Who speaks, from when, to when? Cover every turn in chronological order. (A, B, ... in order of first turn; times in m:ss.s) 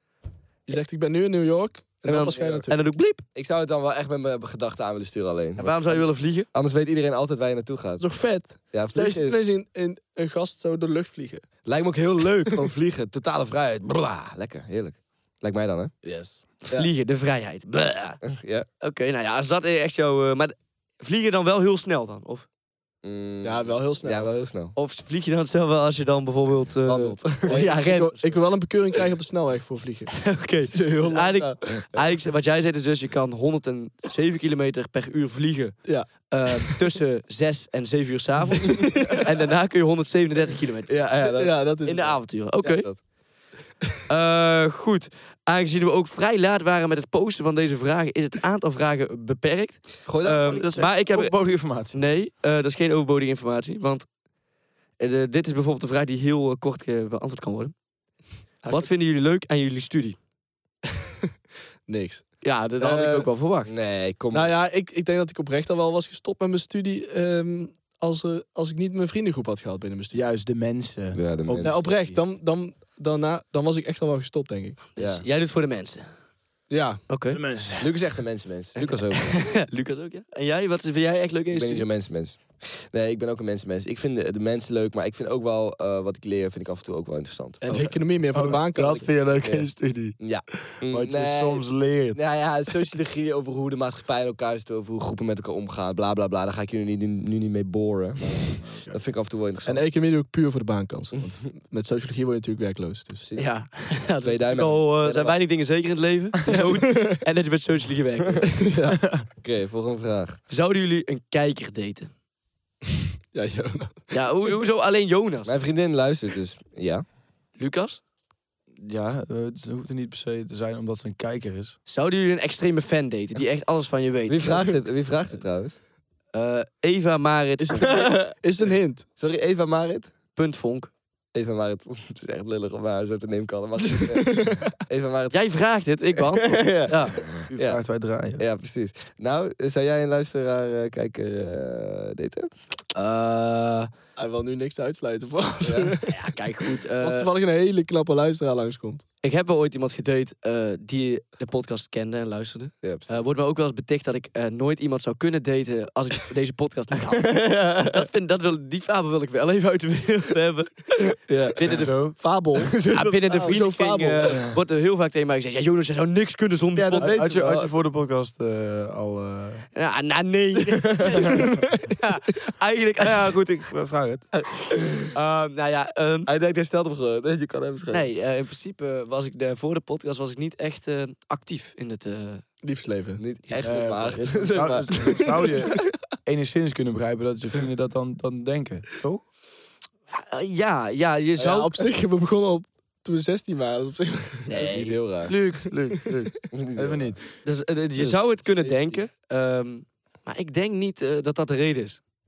0:00.7-0:02.8 A
0:02.0-0:03.2 B
0:02.3-0:02.6 C
0:03.3-0:09.4 C
0:05.6-0:06.5 B
0:08.0-0:11.4 A
0:11.6-0:15.9 C
0:16.0-0:16.4 D
0:16.7-0:18.2 B
0:18.2-0:18.6 C
0:18.8-0:22.4 B
0:23.0-0:24.8 C
0:23.4-0:24.3 A
0:24.7-0:28.4 B
0:26.9-0:27.6 C
0:27.5-0:30.2 A
0:30.1-0:41.0 B
0:30.7-0:32.0 C
0:38.7-0:39.3 A
0:40.9-0:41.5 C
0:41.2-0:42.2 A
0:41.8-0:43.0 B
0:42.6-0:43.0 C
0:44.1-0:54.0 B
0:50.0-0:50.8 C
0:50.4-0:52.0 D
0:55.0-0:57.7 B
0:58.6-0:58.9 A
0:58.6-1:00.2 B
1:01.9-1:03.3 A
1:02.4-1:03.7 B
1:03.7-1:04.5 C
1:04.3-1:10.2 A
1:10.1-1:12.2 D
1:11.1-1:11.8 C
1:11.6-1:14.8 A
1:15.0-1:16.1 B
1:15.0-1:15.2 C
1:16.7-1:17.0 A
1:17.1-1:17.4 B
1:17.3-1:17.9 D
1:17.8-1:19.4 C
1:18.8-1:21.8 B
1:21.5-1:27.9 C
1:27.6-1:29.1 A
1:27.7-1:30.2 D
1:28.8-1:29.7 C
1:30.2-1:39.8 C
1:30.8-1:32.2 D
1:38.6-1:39.0 D
1:39.6-1:43.2 A
1:43.2-1:45.4 C
1:43.4-1:48.5 B
1:46.8-1:47.1 A
1:48.6-1:49.0 A
1:48.9-1:49.2 D
1:49.2-1:50.4 C
1:50.5-1:52.1 B
1:53.3-1:54.1 A
1:54.1-1:55.5 B
1:55.4-1:57.0 C
1:57.6-1:58.0 B
1:58.8-2:01.7 D
2:01.9-2:04.8 B
2:04.3-2:05.8 C
2:06.3-2:08.0 B
2:07.6-2:09.0 A
2:07.9-2:08.3 C
2:09.2-2:10.1 C
2:10.3-2:10.9 B
2:11.3-2:15.4 C
2:13.9-2:14.7 A
2:15.3-2:17.2 B
2:16.3-2:17.8 C
2:17.5-2:18.4 D
2:18.4-2:22.5 C
2:22.9-2:23.9 B
2:24.2-2:26.2 A
2:25.6-2:26.0 C
2:26.0-2:27.3 B
2:27.0-2:29.0 A
2:29.2-2:41.9 B
2:32.8-2:33.1 C
2:37.2-2:38.0 C
2:41.3-2:41.7 C
2:41.7-2:42.2 D
2:42.2-2:44.5 A
2:42.6-2:43.6 C
2:42.9-2:47.1 B
2:46.8-2:47.7 C
2:46.9-2:49.7 D
2:49.7-2:53.4 B
2:50.7-2:51.3 C
2:53.0-2:54.3 D
2:55.1-2:56.3 B
2:56.3-2:58.0 C
2:57.9-3:02.4 B
3:02.6-3:03.2 A
3:03.2-3:05.5 C
3:03.6-3:09.2 D
3:05.2-3:05.5 A
3:10.1-3:11.7 B
3:11.4-3:14.5 A
3:14.5-3:15.0 B
3:14.5-3:15.4 C
3:15.3-3:17.2 D
3:16.5-3:17.2 C
3:17.4-3:22.0 B
3:18.6-3:19.0 A